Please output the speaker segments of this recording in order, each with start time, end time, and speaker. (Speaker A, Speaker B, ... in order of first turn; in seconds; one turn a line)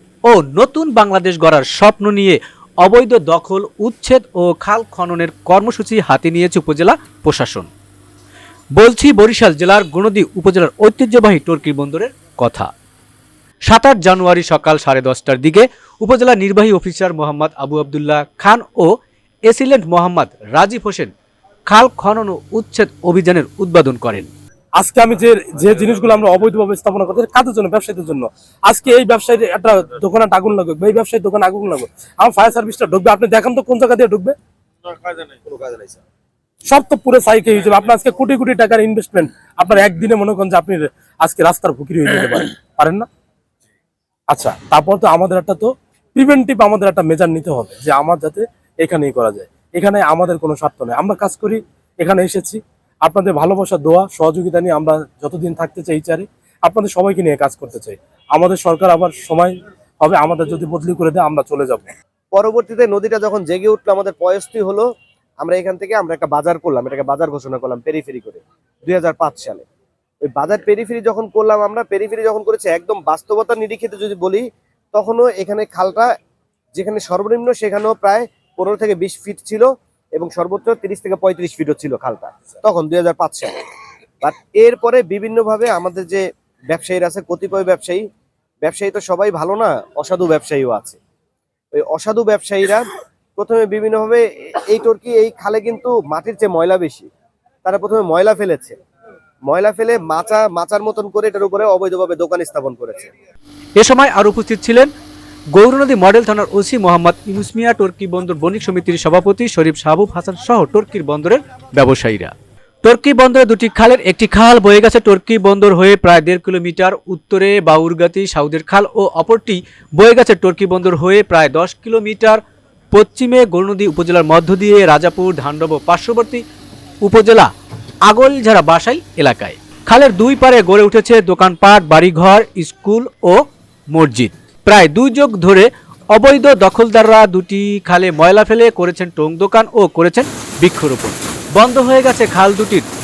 Speaker A: 0.2-7.7
Speaker A: 8.7-12.7
Speaker A: 13.7-18.9
Speaker A: 19.5-21.1
Speaker A: 21.7-24.3
Speaker B: 24.8-34.3
Speaker C: 35.0-35.9
Speaker B: 36.7-43.1
Speaker B: 44.3-61.9
Speaker C: 62.3-64.9
Speaker C: 65.4-69.7
Speaker C: 70.2-76.1
Speaker C: 76.7-83.6
Speaker C: 84.2-88.0
Speaker C: 88.6-91.0
Speaker C: 91.7-92.8
Speaker C: 93.4-97.1
Speaker C: 97.6-98.8
Speaker C: 99.5-103.1
Speaker A: 103.8-104.9
Speaker A: 105.5-122.4
Speaker A: 122.9-126.4
Speaker A: 127.0-127.5
Speaker A: 128.0-142.8